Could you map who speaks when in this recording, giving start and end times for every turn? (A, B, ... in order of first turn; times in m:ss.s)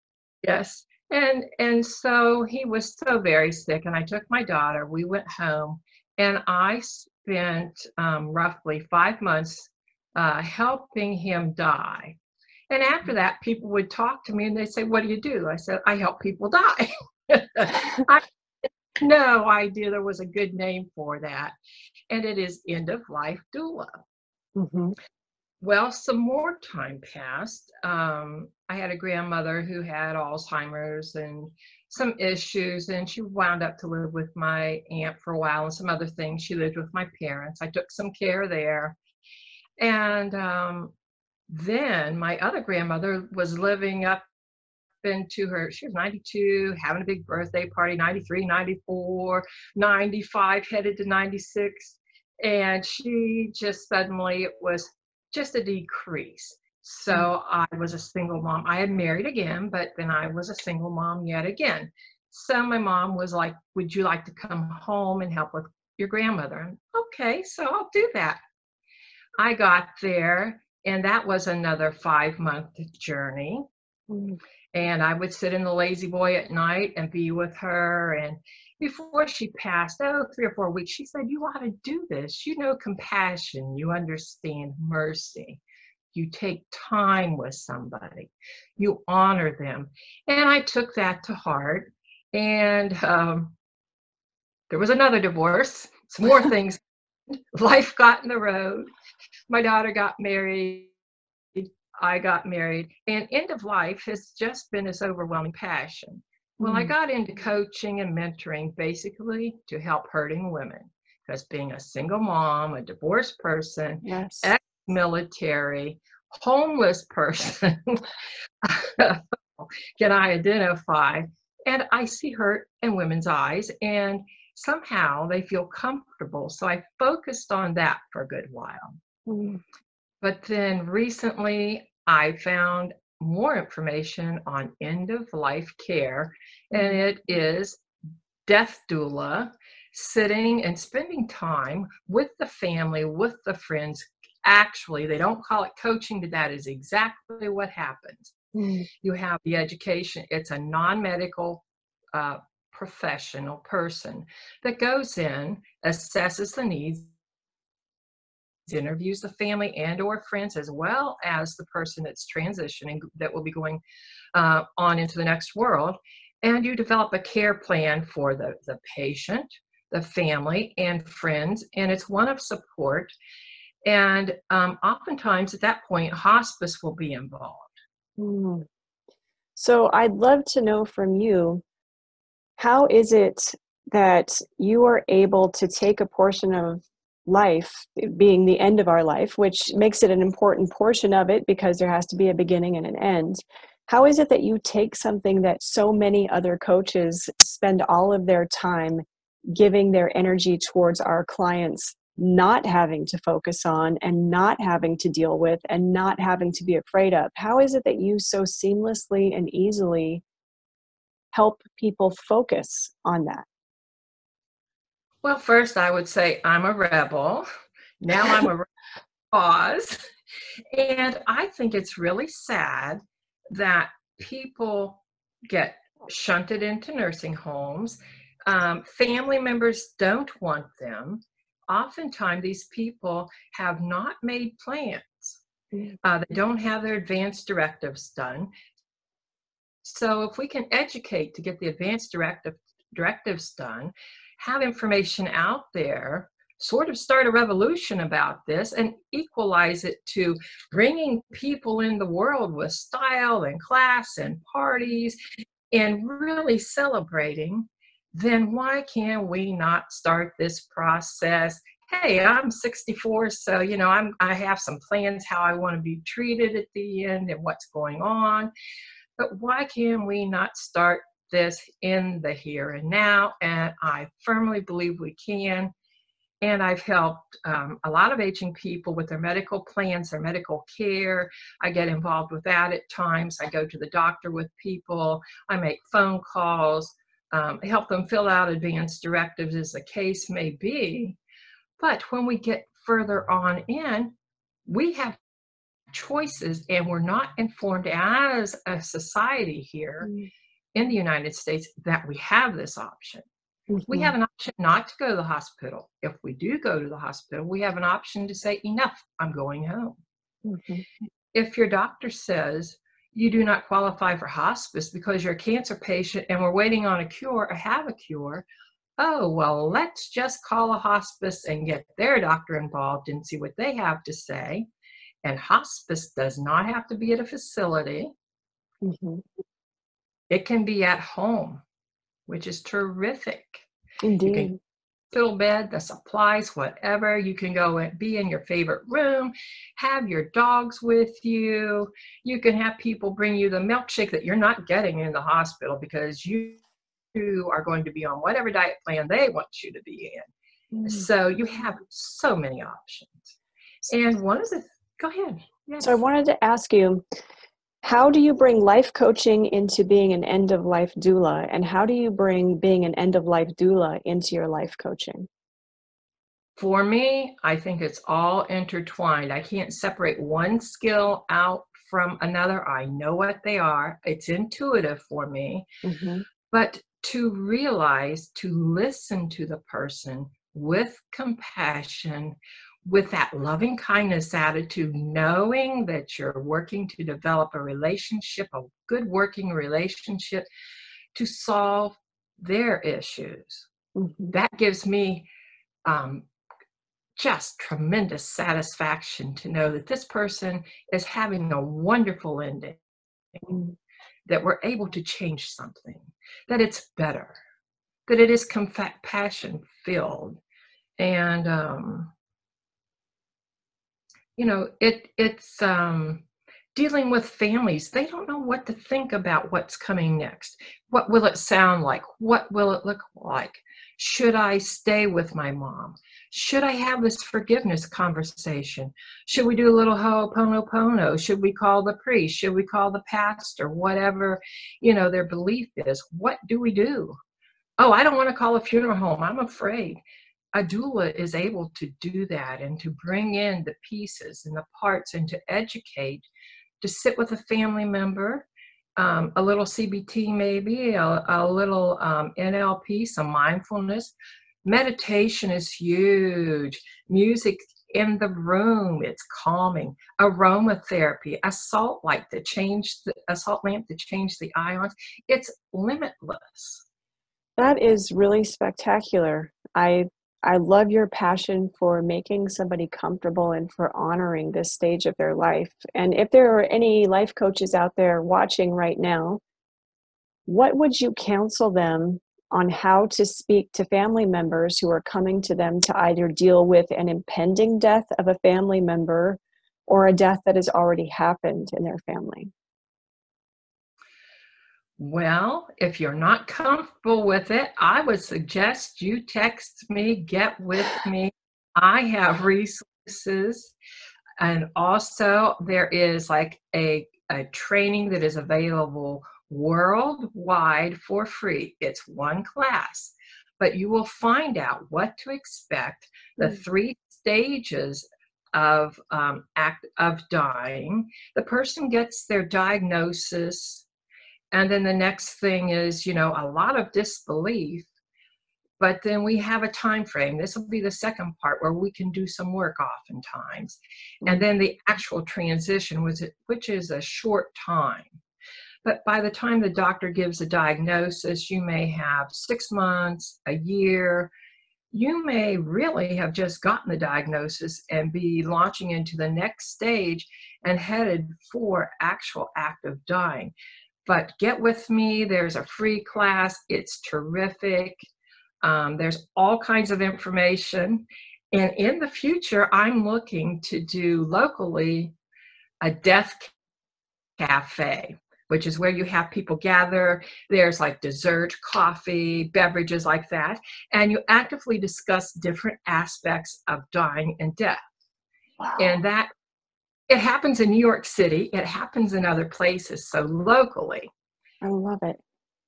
0:00.4-0:12.2 A
0:12.7-0:18.2 A
0:19.0-0:21.5 A
0:22.1-0:24.0 A
0:24.6-0:25.0 B
0:25.6-0:39.0 A
0:39.8-0:40.9 A
0:41.5-0:44.2 A
0:45.0-1:08.4 A
1:09.4-1:13.7 A
1:14.1-1:14.4 B
1:14.7-1:25.6 A
1:26.1-1:33.5 A
1:34.7-1:38.9 A
1:39.5-1:40.9 A
1:41.6-1:58.0 A
1:46.6-1:46.9 B
1:54.0-1:54.5 B
1:58.6-2:09.0 A
2:09.3-2:09.6 B
2:10.2-2:17.8 A
2:16.7-2:17.0 B
2:18.4-2:28.3 A
2:28.5-2:28.9 B
2:29.0-2:37.1 A
2:38.7-2:43.8 A
2:44.3-2:53.1 A
2:53.8-2:57.8 A
2:58.2-2:58.6 B
2:59.6-3:01.6 B
3:02.6-3:30.2 B
3:31.3-3:33.4 B
3:35.2-3:37.5 A
3:38.0-3:38.7 A
3:39.3-3:40.0 A
3:40.7-3:55.4 A
3:56.0-3:58.5 A
3:59.8-4:15.2 A
4:15.7-4:28.5 A
4:29.2-4:35.7 A
4:36.4-4:51.2 A
4:51.8-4:54.1 A
4:54.6-4:55.2 A
4:55.9-5:00.1 A
5:00.0-5:00.3 B
5:00.7-5:03.2 A
5:03.7-5:04.1 B
5:03.9-5:10.0 A
5:10.4-5:10.8 B
5:11.3-5:18.4 A
5:19.0-5:24.7 A
5:25.2-5:28.1 A
5:28.8-5:29.2 B
5:30.3-5:31.6 A
5:32.3-5:33.6 A
5:34.0-5:34.6 B
5:34.2-5:34.5 A
5:35.1-5:46.6 A
5:47.1-5:50.3 A
5:50.7-5:51.1 B
5:50.8-5:53.3 A
5:53.9-5:56.0 A
5:55.8-5:57.0 B
5:57.8-6:05.3 B
6:06.6-6:15.6 A
6:15.8-6:16.2 B
6:16.5-6:30.4 A
6:31.1-6:33.7 A
6:33.9-6:34.3 B
6:34.3-6:35.3 A
6:35.8-6:36.3 A
6:37.2-6:42.8 A
6:44.3-6:47.4 A
6:48.1-6:50.4 A
6:51.0-6:52.1 A
6:54.4-6:56.2 A
6:56.7-7:17.2 A
7:17.8-7:20.0 A
7:20.5-7:26.3 A
7:26.8-7:34.1 A
7:34.6-7:46.8 A
7:47.6-7:59.4 B
8:00.5-8:12.5 B
8:15.0-8:23.7 A
8:24.4-8:43.8 A
8:44.5-8:47.9 A
8:48.8-8:58.2 A
8:58.8-9:04.3 A
9:04.9-9:13.5 A
9:14.0-9:18.0 A
9:18.6-9:25.1 A
9:25.8-9:26.5 A
9:27.4-9:37.8 A
9:38.6-9:39.0 B
9:38.8-9:39.3 A
9:40.1-9:44.1 A
9:44.6-9:45.2 B